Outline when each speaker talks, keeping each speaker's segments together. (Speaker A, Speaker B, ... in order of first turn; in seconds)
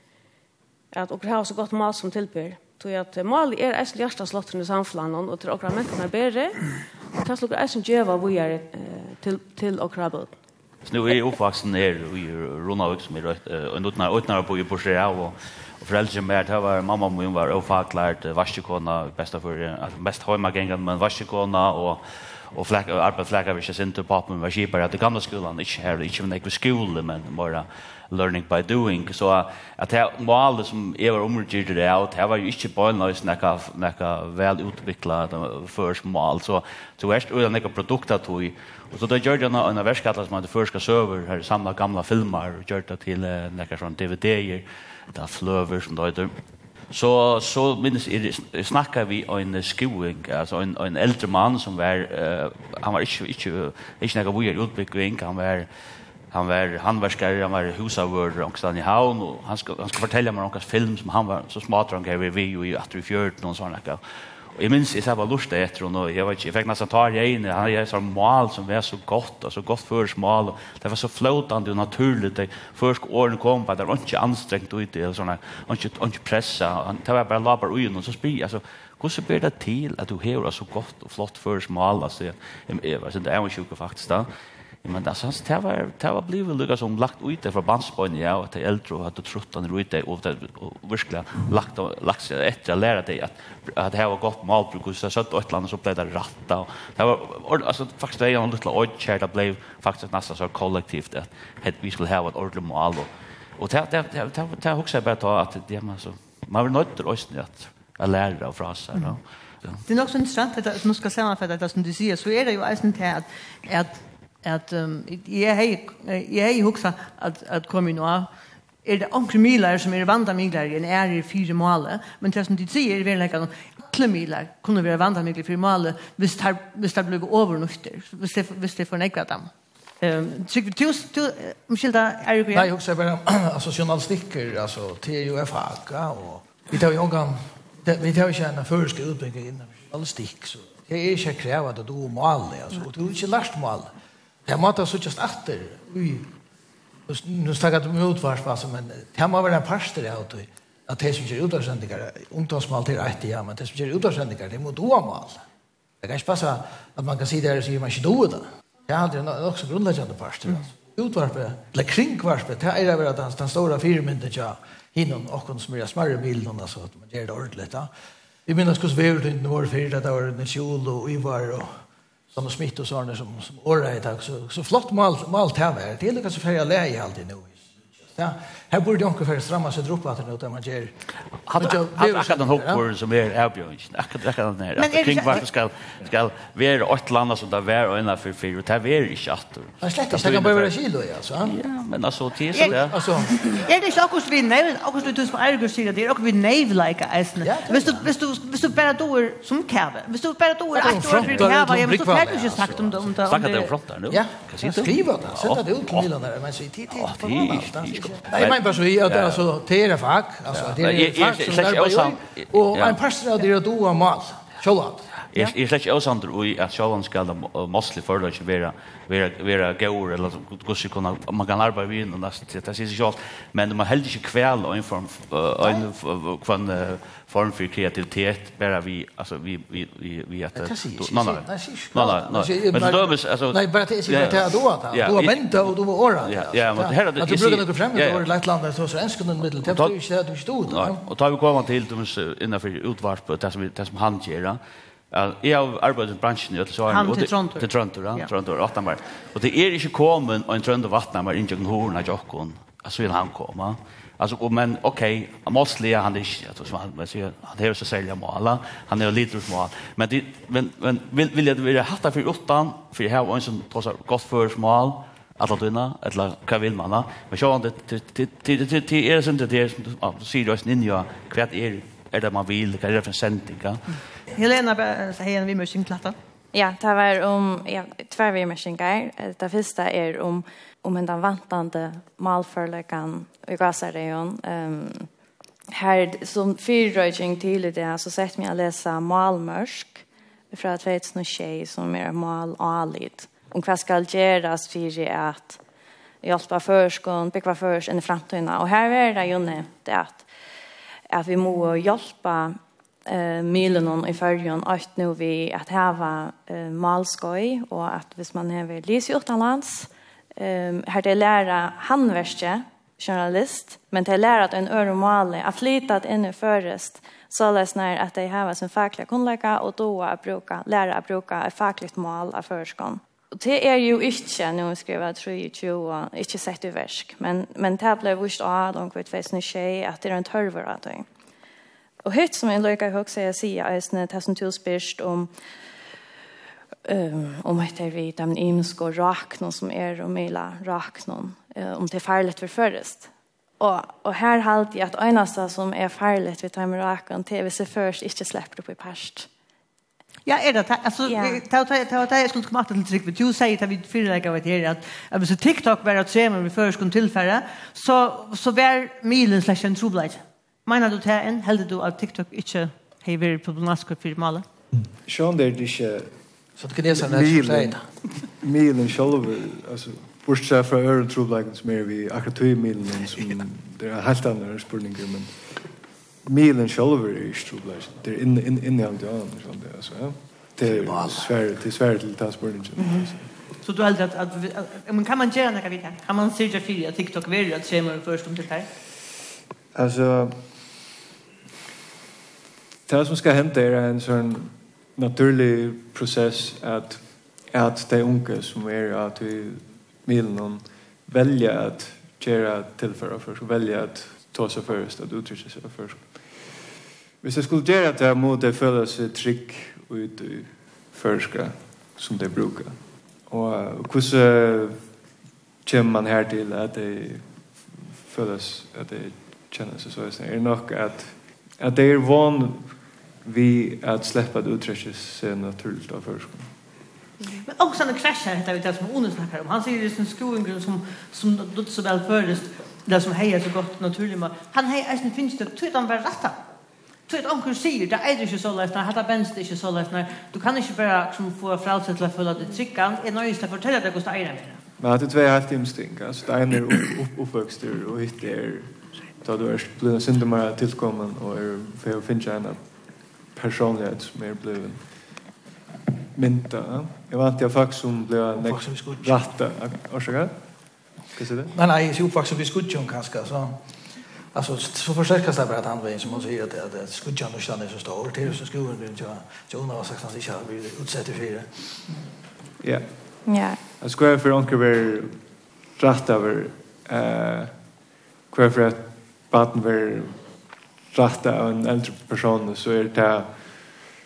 Speaker A: 0.9-6.6, 7.2-10.3
Speaker B: 10.8-46.3, 46.9-55.7, 56.3-64.0, 64.5-84.3, 84.8-109.8, 181.5-190.8, 191.4-193.6, 203.3-206.1, 206.9-209.4, 210.5-213.0, 215.3-235.7, 236.2-238.3, 239.6-239.9, 240.7-244.6, 245.1-274.0
Speaker C: 109.9-118.3, 118.8-129.5, 130.0-132.7, 184.8-185.5, 192.5-192.8, 193.5-203.7, 246.9-248.3, 274.3-276.1, 350.3-364.4, 383.6-388.7, 427.5-436.4, 437.1-444.6
Speaker D: 132.5-143.9, 144.5-146.3, 147.1-155.4, 156.0-167.9, 168.5-171.7, 172.3-177.6, 178.1-180.9, 181.6-182.8, 189.8-191.6, 192.6-193.6, 197.4-198.1, 200.8-203.1, 204.1-215.5, 230.5-241.0, 366.6-367.9, 380.6-381.4, 458.4-459.4, 461.5-463.7, 464.3-471.5
Speaker E: 276.5-285.1, 285.7-295.6, 296.2-300.3, 301.1-331.1, 332.1-335.3, 336.9-343.1, 343.6-349.3, 351.1-351.4, 473.3-473.6
Speaker F: 365.1-366.2, 366.9-375.7, 376.2-383.3, 389.7-390.7, 392.9-406.6, 407.2-415.1, 415.6-426.6, 444.8-455.2, 456.1-461.5, 472.6-473.2, 473.8-483.8